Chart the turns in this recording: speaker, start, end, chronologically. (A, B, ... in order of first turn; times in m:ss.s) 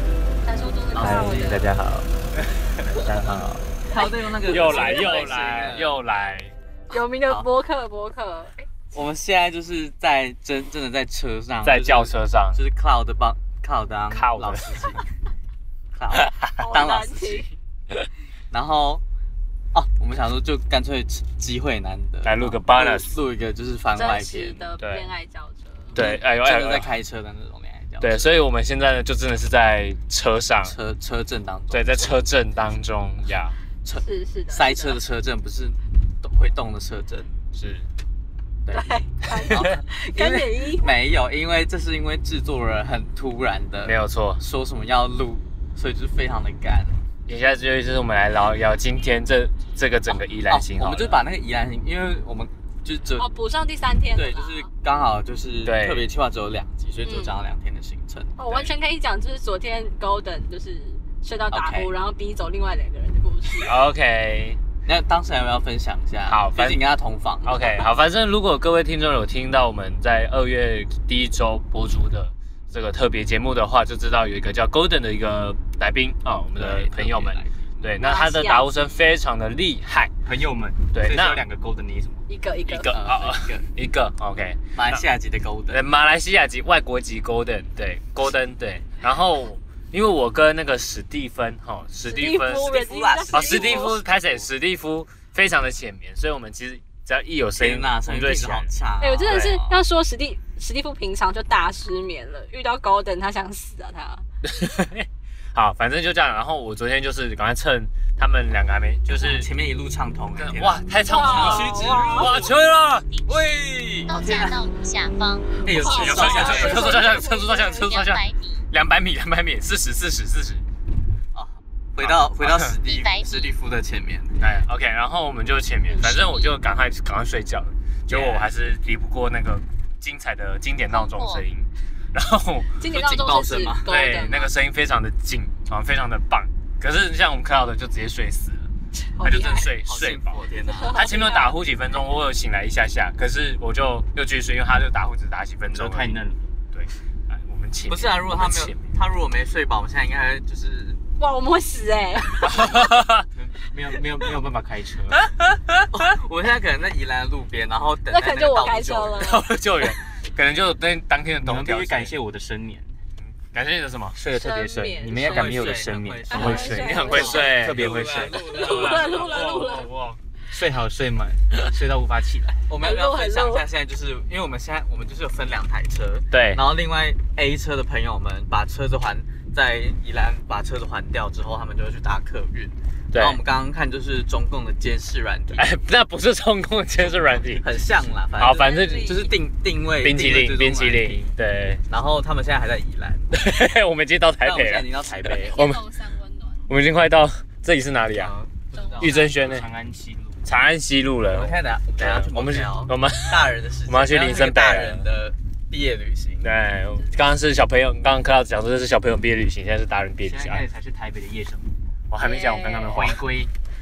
0:00.4-0:01.7 A
0:00.9-0:01.7 B
0:01.0-0:02.1 C
0:02.9-0:03.7 C
0:03.9-0:06.3 B
0:04.0-0:05.2 A
0:04.4-0:06.5 D
0:06.9-0:08.5 A
0:08.9-0:15.0 B
0:11.6-0:12.6 D
0:14.1-0:15.0 D
0:15.9-0:17.5 B
0:16.1-0:16.7 D
0:16.6-0:17.5 A
0:18.5-0:19.0 B
0:19.7-0:24.7 B
0:22.2-0:23.1 D
0:23.9-0:25.9 A
0:24.8-0:25.1 D
0:26.0-0:26.9 D
0:26.0-0:28.4 B
0:28.0-0:30.8 D
0:30.6-0:32.3 B
0:31.7-0:33.6 D
0:33.8-0:37.3 B
0:34.0-0:35.0 A
0:37.5-0:37.9 D
0:38.7-0:40.9 A
0:39.5-0:47.0 B
0:43.8-0:44.4 D
0:47.3-0:51.2 D
0:50.5-0:53.3 B
0:53.2-0:54.7 A
0:54.2-0:58.7 B
0:55.6-0:56.1 D
0:57.0-0:57.4 A
0:58.4-1:03.8 A
1:01.5-1:01.9 B
1:03.6-1:04.6 D
1:04.9-1:07.9 B
1:06.3-1:06.8 D
1:07.4-1:20.1 D
1:16.6-1:17.6 B
1:18.0-1:18.8 A
1:20.2-1:22.2 C
1:20.9-1:21.4 D
1:22.3-1:22.9 A
1:22.7-1:25.0 D
1:22.9-1:23.7 B
1:24.8-1:25.8 B
1:25.7-1:32.8 D
1:32.0-1:34.0 A
1:32.5-1:34.5 B
1:33.3-1:38.7 D
1:37.6-1:39.8 B
1:39.0-1:44.2 A
1:44.4-1:49.5 D
1:49.1-1:52.5 B
1:50.4-1:53.1 D
1:51.1-1:52.5 A
1:52.2-1:53.4 E
1:53.3-1:54.6 B
1:54.1-1:58.6 E
1:55.6-1:57.0 B
1:55.7-2:00.6 D
1:55.7-1:57.6 A
2:01.3-2:04.4 B
2:02.0-2:02.7 D
2:02.8-2:03.6 E
2:04.4-2:12.8 D
2:05.9-2:06.5 A
2:08.1-2:08.5 B
2:10.9-2:11.4 E
2:12.8-2:14.5 A
2:12.9-2:13.9 B
2:13.8-2:26.2 D
2:19.1-2:19.7 A
2:19.8-2:21.0 B
2:20.7-2:21.6 A
2:25.7-2:26.5 C
2:26.7-2:28.8 D
2:27.9-2:31.0 B
2:31.2-2:32.6 A
2:32.4-2:33.3 D
2:33.3-2:35.2 C
2:35.9-2:39.4 B
2:38.1-2:39.5 A
2:39.2-2:42.1 D
2:41.4-2:42.9 C
2:43.2-2:44.2 D
2:44.2-2:48.5 C
2:44.3-2:45.7 A
2:45.1-2:49.7 B
2:46.3-2:47.4 A
2:46.3-2:50.2 D
2:48.6-2:49.9 A
2:50.5-2:52.6 C
2:52.7-3:05.7 B
2:52.8-2:53.7 A
2:56.3-2:56.6 D
3:03.1-3:03.4 D
3:05.5-3:07.7 D
3:07.6-3:11.2 B
3:08.4-3:09.3 D
3:08.5-3:09.3 A
3:10.0-3:11.8 D
3:11.9-3:13.3 B
3:13.3-3:15.8 D
3:14.4-3:15.6 B
3:15.4-3:16.6 A
3:16.7-3:18.3 D
3:18.2-3:19.4 B
3:18.7-3:19.6 A
3:19.0-3:19.7 D
3:19.4-3:20.5 C
3:20.4-3:25.1 D
3:21.2-3:26.5 B
3:26.4-3:30.6 D
3:30.2-3:31.8 C
3:32.1-3:33.2 D
3:32.2-3:33.1 A
3:32.9-3:33.5 C